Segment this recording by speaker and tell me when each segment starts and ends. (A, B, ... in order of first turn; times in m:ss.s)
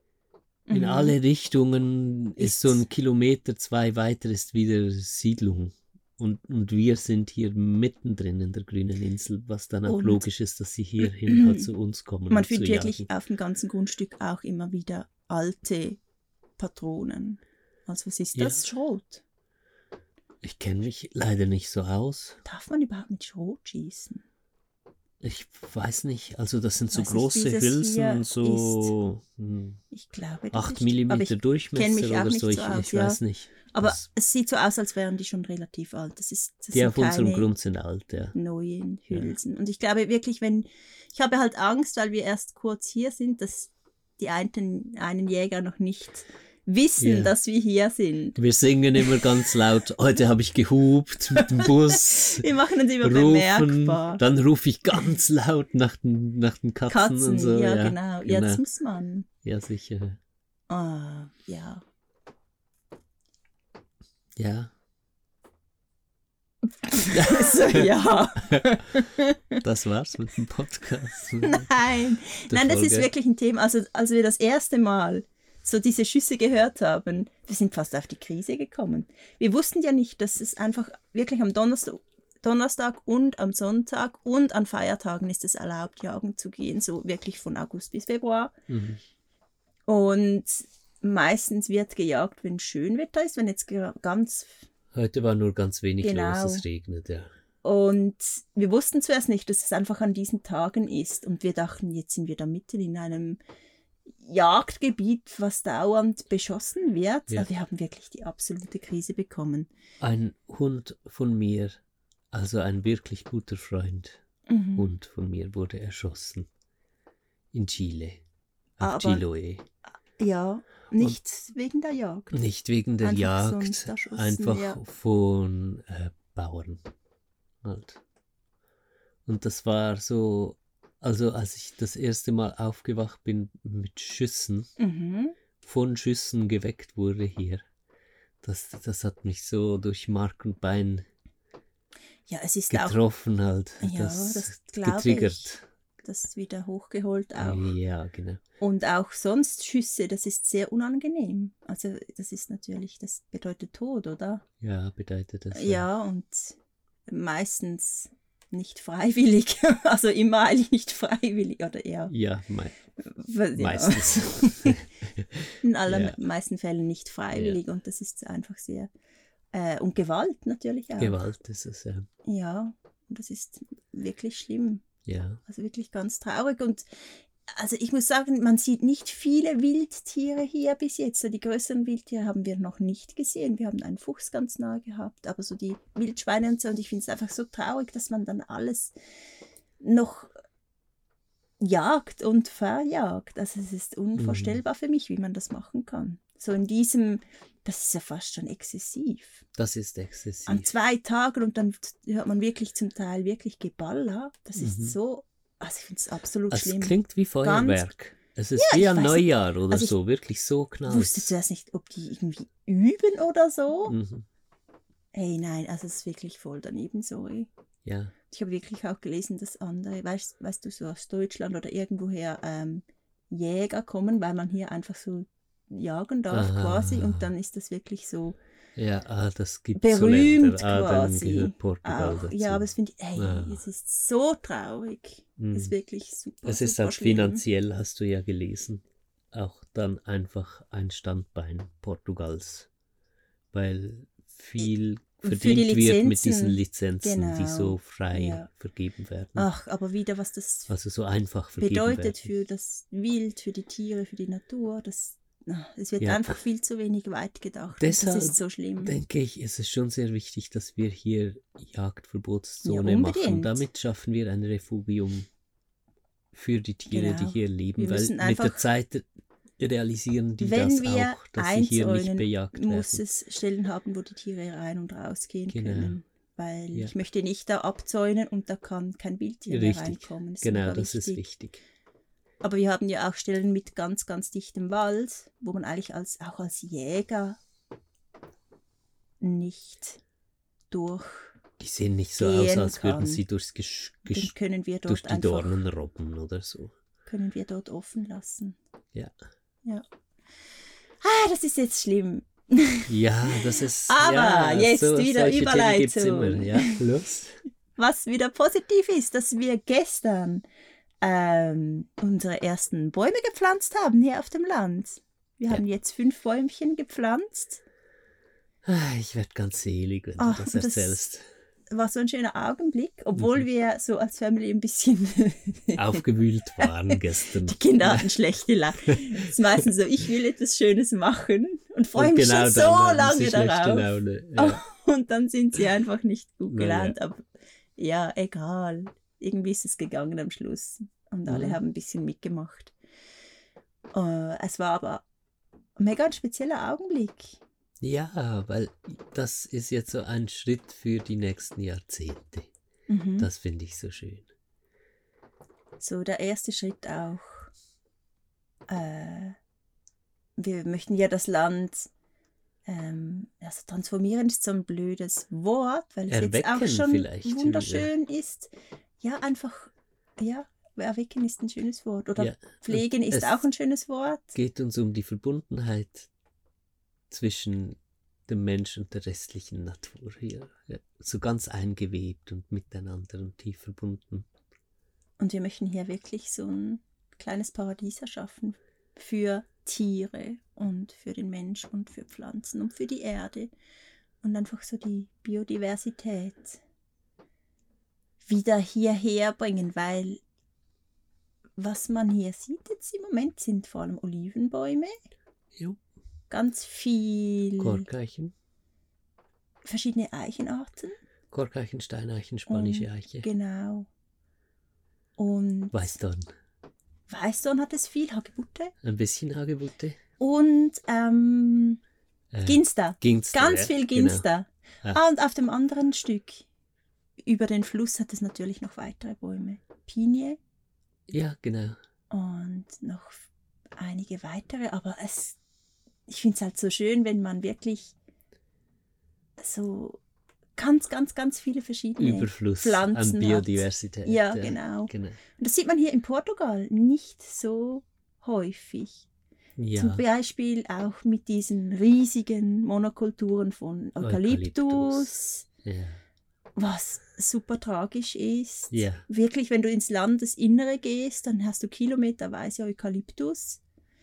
0:00.7-0:01.2 A
0:00.7-0:13.1 B
0:02.4-0:02.8 A
0:09.9-0:10.2 A
0:11.0-0:11.7 A
0:12.3-0:16.0 A
0:16.6-0:19.2 A
0:18.3-0:18.6 B
0:20.4-0:22.4 B
0:22.4-0:24.2 A
0:25.2-0:29.8 B
0:26.9-0:28.9 A
0:29.9-0:37.5 A
0:30.5-0:34.0 B
0:36.7-0:38.3 B
0:38.3-0:48.4 A
0:47.0-0:47.3 B
0:48.4-0:52.5 B
0:51.4-0:54.2 A
0:53.0-0:58.6 B
0:56.9-0:59.3 A
0:59.4-1:00.2 B
1:00.7-1:01.8 A
1:04.4-1:04.7 B
1:06.8-1:09.6 A
1:07.1-1:07.9 B
1:09.6-1:11.8 B
1:11.4-1:28.5 A
1:12.3-1:13.1 B
1:28.7-1:29.0 B
1:29.9-1:34.5 A
1:34.9-1:37.3 B
1:36.0-1:36.6 A
1:37.6-1:43.4 A
1:44.2-1:49.7 A
1:50.0-1:51.8 B
1:52.3-1:54.2 B
1:54.5-1:54.9 A
1:54.8-1:56.5 B
1:57.5-1:58.2 B
1:58.8-1:59.6 B
1:58.8-1:59.2 A
2:00.2-2:02.4 A
2:02.3-2:06.8 B
2:03.0-2:04.8 A
2:07.6-2:08.0 B
2:09.2-2:14.7 B
2:14.8-2:15.3 A
2:15.6-2:17.6 B
2:18.4-2:21.0 B
2:22.3-2:23.0 A
2:22.7-2:25.6 B
2:23.8-2:27.7 A
2:27.4-2:28.4 B
2:28.6-2:34.4 A
2:34.6-2:35.8 B
2:35.5-2:42.1 A
2:42.1-2:42.8 B
2:43.0-2:44.8 A
2:43.6-2:46.2 B
2:45.6-2:48.9 A
2:47.3-2:47.6 B
2:49.5-2:51.2 A
2:51.0-2:52.0 B
2:52.2-2:54.8 A
2:55.0-2:55.4 B
2:55.4-3:08.9 A
3:09.8-3:10.3 A
3:11.6-3:19.4 A
3:14.2-3:14.6 B
3:19.5-3:20.7 B
3:20.4-3:27.8 A
3:24.6-3:24.9 B
3:26.5-3:31.3 B
3:28.6-3:29.9 A
3:30.8-3:34.0 A
3:33.8-3:34.3 B
3:35.1-3:37.5 A
3:37.8-3:38.1 B
3:38.3-3:48.4 A
3:46.3-3:47.3 B
3:48.8-3:53.6 B
3:49.8-3:57.4 A
3:55.4-3:55.7 B
3:56.4-4:02.7 B
4:03.5-4:09.5 B
4:05.2-4:08.5 A
4:09.4-4:10.7 A
4:10.7-4:12.3 B
4:11.6-4:19.0 A
4:16.0-4:16.4 B
4:17.8-4:25.3 B
4:22.6-4:23.6 A
4:26.3-4:29.0 B
4:26.9-4:28.6 A
4:29.6-4:33.0 B
4:30.4-4:41.2 A
4:35.5-4:36.0 B
4:39.5-4:41.6 B
4:42.4-4:47.4 A
4:49.2-4:50.0 A
4:50.7-4:51.4 A
4:51.6-4:54.3 B
4:52.2-4:53.2 A
4:54.1-4:55.6 A
4:54.9-4:56.7 B
4:57.0-4:58.6 A
5:01.0-5:06.8 A
5:02.9-5:07.4 B
5:07.8-5:10.4 A
5:11.0-5:17.6 A
5:18.6-5:21.2 B
5:20.2-5:21.0 A
5:21.7-5:26.0 A
5:25.8-5:28.0 B
5:26.6-5:37.2 A
5:31.9-5:34.6 B
5:36.5-5:37.0 B
5:37.8-5:42.7 A
5:41.3-5:41.6 B
5:43.9-5:45.0 A
5:45.8-5:47.4 A
5:47.8-5:52.5 B
5:52.9-5:53.3 A
5:53.2-5:54.3 B
5:55.8-5:57.5 A
5:58.7-5:59.4 A
6:00.4-6:01.9 A
6:02.6-6:14.4 A
6:06.1-6:07.9 B
6:12.2-6:13.4 B
6:14.3-6:16.1 B
6:17.1-6:24.2 B
6:25.2-6:33.5 A
6:34.2-6:36.6 A
6:38.2-6:40.2 A
6:41.6-6:44.9 A
6:46.3-6:47.8 A
6:47.6-6:48.3 B
6:49.6-6:51.0 A
6:51.3-6:53.3 B
6:52.5-6:53.9 A
6:55.2-6:56.0 A
6:55.7-6:56.3 B
6:57.1-6:58.7 A
6:58.8-7:00.0 B
7:00.2-7:01.8 A
7:02.3-7:04.2 B
7:02.4-7:06.4 A
7:07.2-7:10.4 A
7:11.1-7:11.8 B
7:12.1-7:13.3 A
7:13.8-7:15.4 A
7:16.1-7:17.9 A
7:19.4-7:20.0 A
7:20.6-7:29.1 A
7:22.0-7:25.2 B
7:29.6-7:30.0 B
7:29.7-7:35.4 A
7:34.0-7:36.0 B
7:36.6-7:43.6 A
7:38.7-7:39.0 B